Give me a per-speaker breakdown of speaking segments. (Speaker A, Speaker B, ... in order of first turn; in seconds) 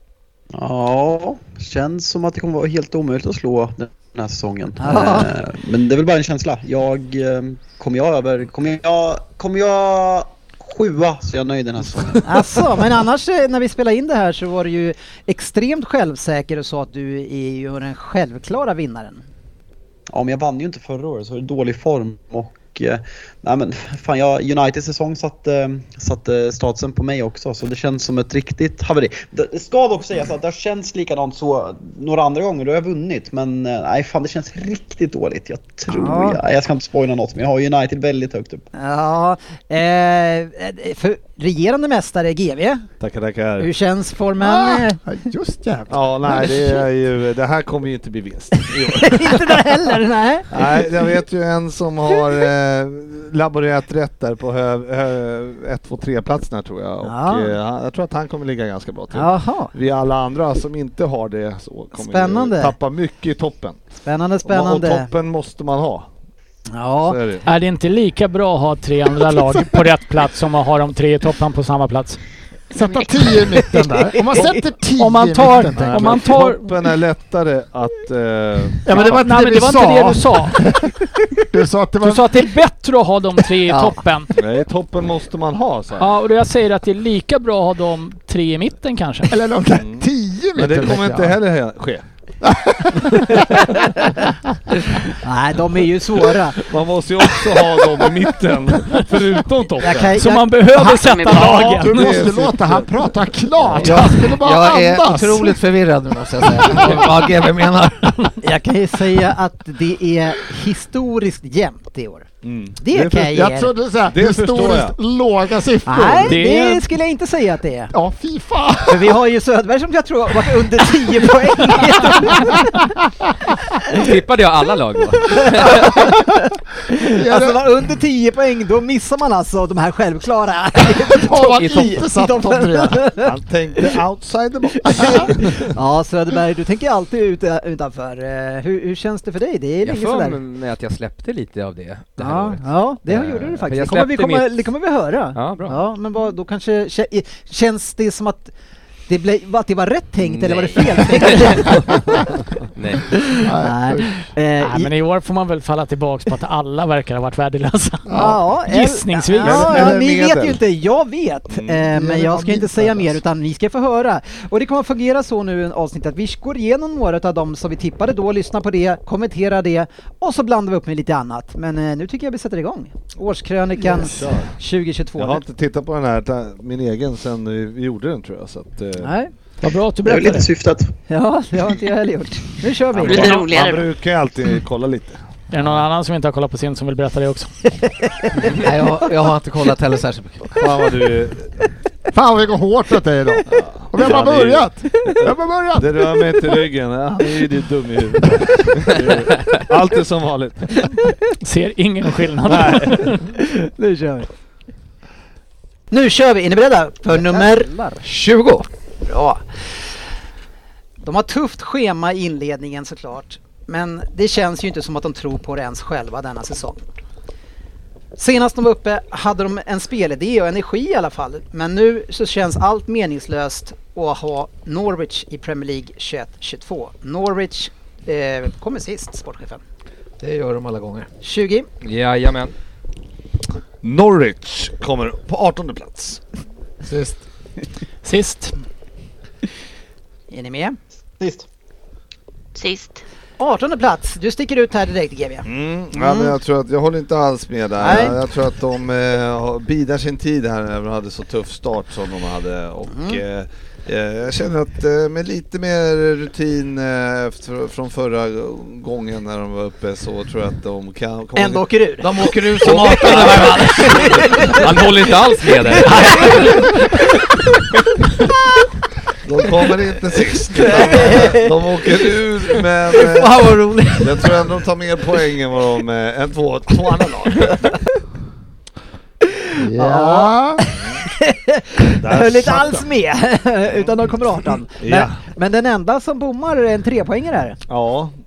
Speaker A: 0.5-12.7, 20.1-38.7, 180.0-180.9, 241.2-241.5
Speaker B: 4.8-5.3, 12.2-19.2, 35.9-36.4, 38.8-42.9, 43.6-45.0, 48.8-50.8, 57.0-57.5, 59.1-59.7, 61.9-62.8, 64.0-65.1, 66.7-67.2, 74.1-74.6, 95.2-96.6, 99.8-101.0, 108.4-113.7, 115.9-117.9, 118.9-122.8, 125.3-126.2, 126.9-134.0, 134.8-140.4, 142.2-148.5, 149.1-152.0, 153.6-154.9, 158.1-175.4, 179.0-179.3, 181.1-183.5, 187.8-189.1, 203.4-204.3, 205.9-207.7, 209.1-209.4, 211.0-216.9, 218.2-229.6, 231.2-231.7, 240.3-240.8, 243.4-246.4, 247.8-248.2, 252.9-253.2, 261.4-264.7, 266.1-266.5, 270.6-271.5, 279.7-287.6
Speaker C: 43.0-43.7, 45.9-49.8, 50.5-63.8, 64.5-66.1, 67.0-67.5, 75.7-79.3, 84.3-86.1, 89.7-90.0, 90.6-92.0, 96.6-100.2, 101.5-103.1, 103.6-104.2, 112.4-113.3, 114.1-115.0, 133.2-135.7, 159.4-160.6, 161.5-161.9, 173.8-174.5, 175.2-179.2, 183.0-185.8, 190.5-191.5, 193.5-201.0, 202.5-203.1, 233.8-236.2, 245.4-261.6, 262.6-264.3, 269.2-273.5, 274.0-277.7, 280.8-281.0, 282.0-282.9, 284.8-285.2, 287.7-288.1
Speaker D: 44.4-46.8, 72.7-76.4, 78.8-82.5, 89.3-91.3, 92.5-93.5, 101.3-105.6, 106.6-107.1, 113.2-116.4, 117.9-119.2, 127.0-127.6, 131.2-133.1, 153.4-154.2, 158.1-158.4, 161.9-163.1, 192.1-196.2, 236.9-237.2, 279.6-280.6
Speaker E: 67.4-72.2, 75.0-76.8, 78.9-80.7, 82.0-84.3, 86.0-89.3, 100.2-102.3, 116.3-116.8, 154.6-158.2, 158.7-159.9, 179.6-180.5, 185.5-187.5, 201.4-203.3, 238.0-238.5
Speaker F: 100.9-101.8, 183.0-183.9, 242.6-243.0
Speaker G: 103.8-108.3, 188.6-190.5, 207.2-208.7, 230.2-231.1, 262.0-264.6, 265.8-266.7, 270.6-271.0, 273.0-274.3
Speaker H: 123.9-126.0, 139.8-144.7, 145.3-145.8, 150.2-151.8, 152.8-153.2, 231.8-232.5, 264.4-266.5